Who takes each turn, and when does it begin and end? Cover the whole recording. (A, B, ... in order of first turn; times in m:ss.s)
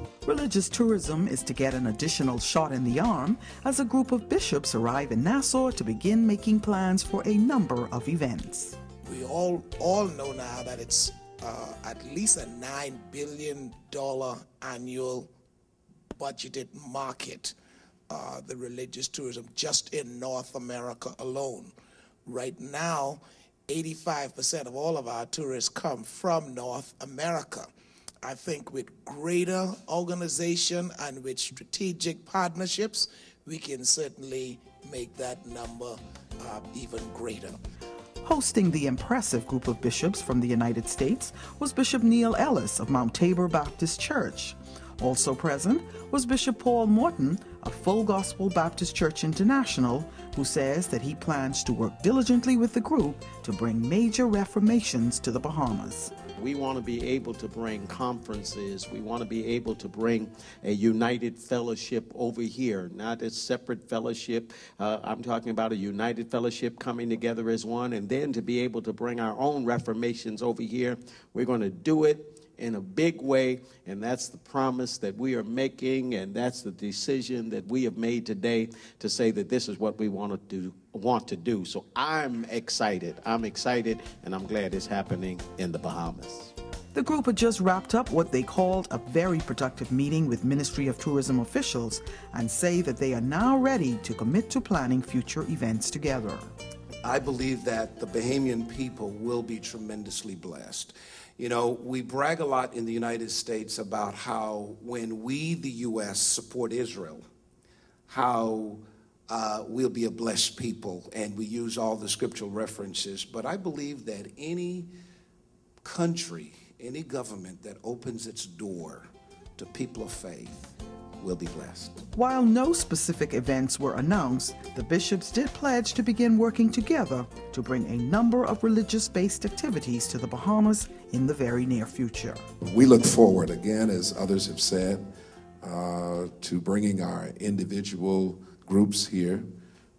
0:00.2-0:08.8 A
0:09.0-0:15.3 B
0:16.2-0:17.5 B
0:18.1-0:21.7 B
0:22.2-0:27.7 B
0:28.2-0:37.6 B
0:38.2-0:56.1 A
0:56.3-1:26.5 C
1:26.9-1:36.5 A
1:37.0-1:47.3 D
1:48.1-1:54.9 D
1:55.8-2:02.0 D
2:02.1-2:12.4 A
2:12.6-2:15.1 E
2:15.6-2:19.5 E